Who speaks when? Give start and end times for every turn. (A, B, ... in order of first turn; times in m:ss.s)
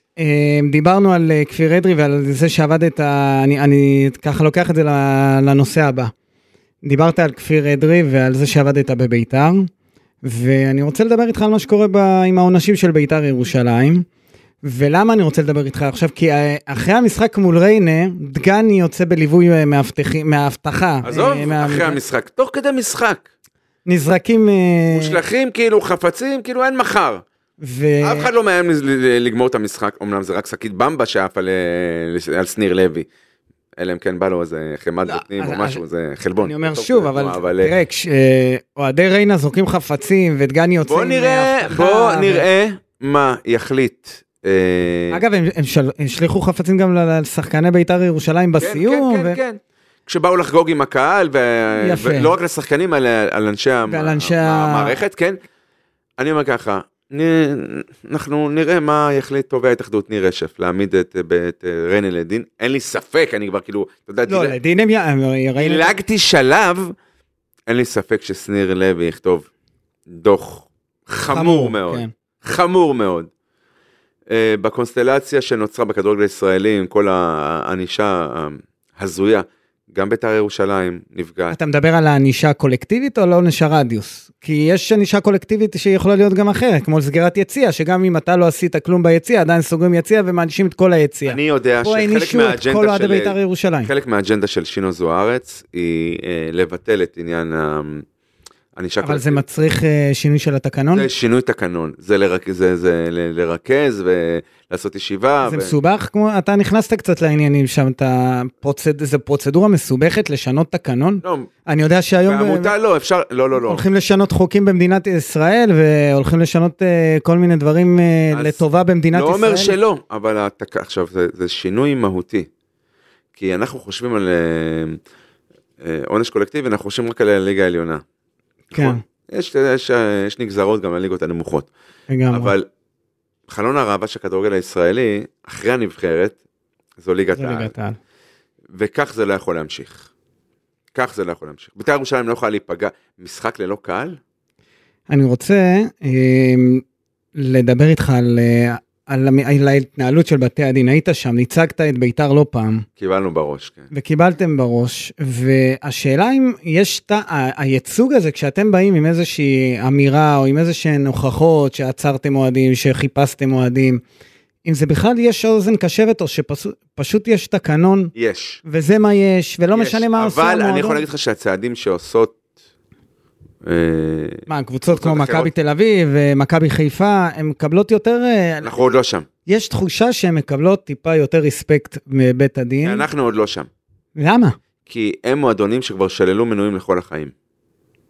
0:00.2-0:06.1 A
0:06.8-0:09.7 A
0:10.2-0:14.0 A
0:14.6-0:22.0 A
0:21.0-0:23.2 B
0:23.8-0:25.2 A
0:24.9-0:27.2 B
0:27.6-0:28.3 A
0:28.0-0:33.1 B
0:33.8-0:37.7 B
0:35.0-0:35.8 A
0:36.4-0:42.4 A
0:40.8-0:45.2 B
0:45.1-0:49.4 A
0:48.6-0:55.4 B
0:51.8-0:52.3 A
0:53.9-0:55.0 A
0:56.2-1:04.6 B
1:04.3-1:05.9 A
1:05.6-1:06.9 B
1:07.7-1:09.5 B
1:10.1-1:13.3 B
1:11.3-1:12.1 A
1:14.3-1:21.6 B
1:21.5-1:33.9 A
1:31.3-1:38.0 B
1:38.8-1:39.4 B
1:39.0-1:41.1 A
1:40.9-1:45.7 B
1:45.4-1:52.7 A
1:51.2-1:51.5 B
1:52.3-1:53.8 B
1:53.6-1:59.8 A
1:58.3-1:58.6 B
1:59.1-2:02.5 B
2:03.4-2:05.0 B
2:05.8-2:08.0 B
2:08.7-2:11.7 B
2:08.7-2:09.0 A
2:12.1-2:12.5 A
2:12.3-2:12.7 B
2:13.5-2:16.4 B
2:17.0-2:17.7 B
2:17.4-2:18.0 A
2:18.7-2:20.1 B
2:20.9-2:24.2 B
2:25.1-2:26.8 A
2:27.3-2:32.8 A
2:33.0-2:33.9 B
2:33.9-2:44.0 A
2:44.6-2:48.1 A
2:48.1-2:48.6 B
2:48.6-2:51.0 A
2:49.7-2:52.4 B
2:53.6-2:55.5 B
2:54.5-2:58.7 A
2:58.6-2:59.3 B
2:59.4-3:03.0 A
3:02.8-3:03.7 B
3:04.2-3:04.6 A
3:04.9-3:07.3 B